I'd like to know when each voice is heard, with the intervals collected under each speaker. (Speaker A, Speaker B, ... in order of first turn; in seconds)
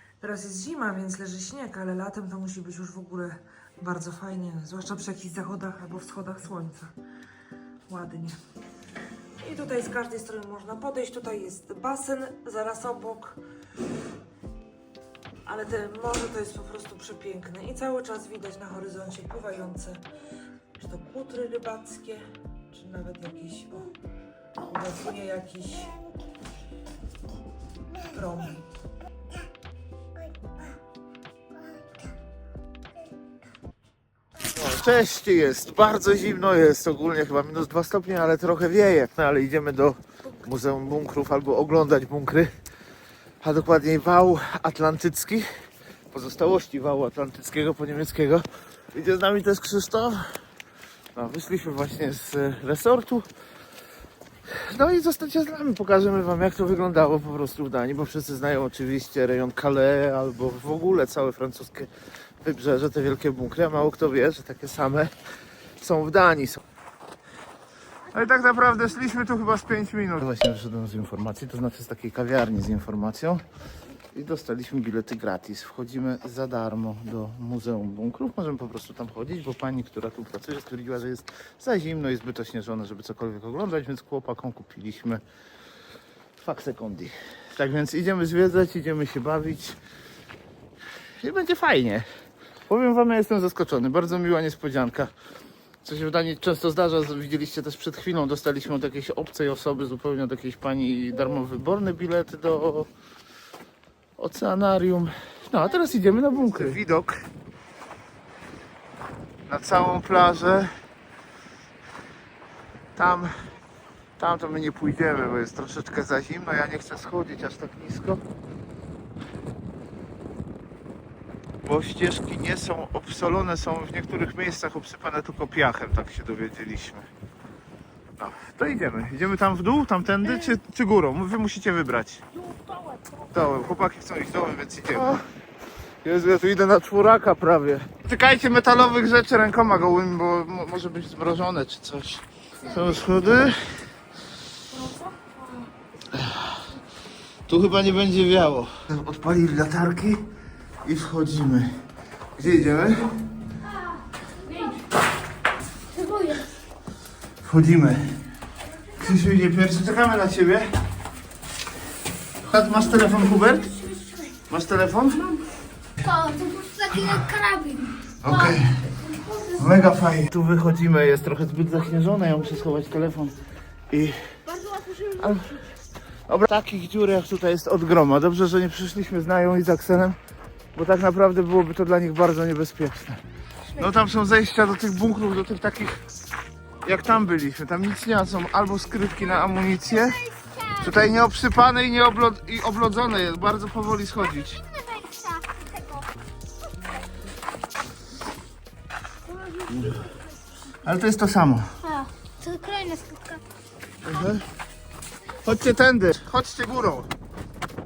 Speaker A: 0.2-6.9, 7.9-8.4, 9.4-13.4, 15.5-20.0, 20.8-23.9, 24.6-25.9, 28.1-28.6
Speaker B: 34.4-42.5, 43.4-45.5, 46.1-50.4, 51.1-53.3, 54.5-65.1, 65.8-66.6, 68.1-73.4, 74.1-85.2, 86.4-89.8, 91.2-92.1, 92.7-95.1, 95.8-102.9, 104.2-107.1, 109.5-110.7, 113.0-113.3, 114.2-118.2, 121.6-127.1, 128.2-132.2, 133.3-135.2, 136.0-143.7, 146.1-146.7, 147.5-150.3, 150.8-151.7, 152.4-153.0, 157.4-158.2, 159.0-160.7, 162.4-163.8, 164.5-165.2, 166.9-167.3, 168.2-168.8, 169.5-173.4, 173.9-174.4, 175.2-175.6, 176.3-180.2, 180.8-186.0, 186.8-194.7, 199.7-200.0, 200.8-201.8, 204.0-204.4, 205.4-207.1
Speaker C: 132.5-133.3, 144.7-145.7, 154.4-154.8, 155.9-156.5, 163.8-164.3, 165.1-165.4, 166.0-169.6, 174.5-175.6, 194.9-196.0, 199.3-200.0, 201.8-203.4